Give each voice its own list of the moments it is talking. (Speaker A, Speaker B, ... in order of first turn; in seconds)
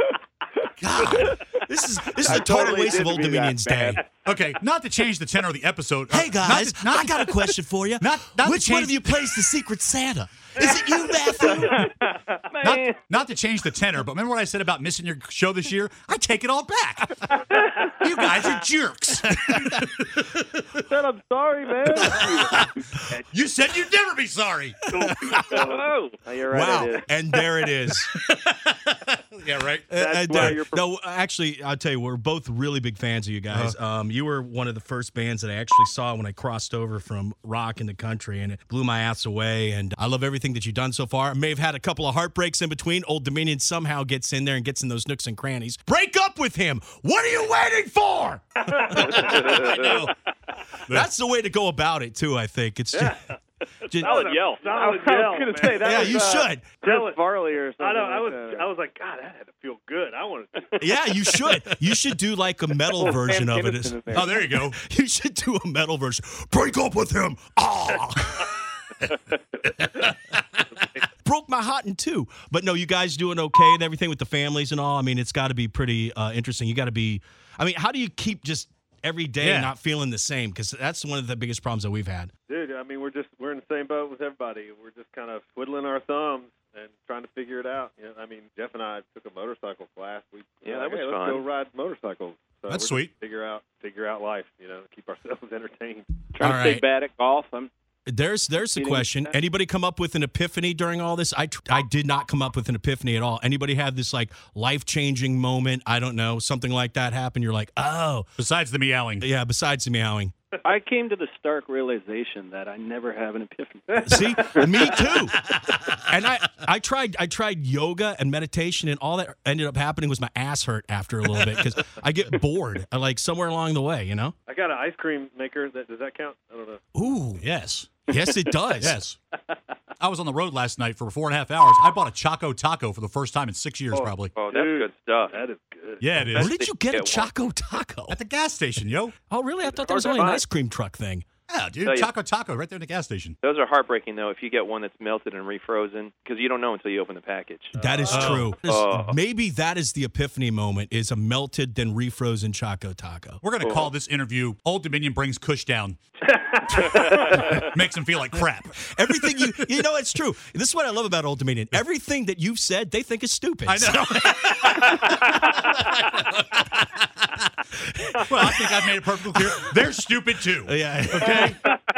Speaker A: 0.8-4.0, 6.1-11.9, 25.0-25.6, 26.5-28.1, 29.9-49.3, 50.9-53.2, 53.9-54.1, 55.7-56.7, 60.8-68.6, 71.2-82.3, 96.4-96.8, 98.1-108.3, 109.2-110.3, 114.0-115.5, 116.0-124.3, 126.9-127.4, 128.1-129.0, 136.3-138.2, 139.3-141.2, 147.7-153.4, 158.9-164.9, 167.8-168.8, 169.3-169.8, 170.6-171.6
Speaker B: 1.0-1.3, 4.2-9.0, 12.6-20.3, 22.0-24.9, 28.3-30.6, 33.5-33.7, 49.0-50.1, 64.1-64.8, 79.4-79.7, 92.7-93.1, 108.4-109.3, 127.4-128.0, 128.8-129.2, 130.0-134.3, 136.0-136.5, 138.1-139.1, 141.5-143.3, 148.1-148.5, 153.4-156.0, 156.6-159.5, 163.7-167.5, 168.2-171.8
Speaker C: 2.2-4.0, 20.7-22.6, 25.0-27.1, 29.9-30.8, 54.6-58.6, 62.9-64.5
Speaker D: 11.4-11.9, 48.7-49.9, 52.9-53.2, 54.0-57.2, 57.8-61.4, 82.5-96.1, 124.5-126.8, 133.9-136.4, 139.8-140.4, 156.3-157.4
Speaker E: 12.6-12.9, 53.9-54.7, 96.3-97.7, 98.8-99.3, 110.6-114.3
Speaker F: 25.6-26.2, 90.6-91.5, 134.3-135.4, 136.4-137.3, 141.8-142.1, 143.4-148.0, 148.5-149.2, 153.6-153.9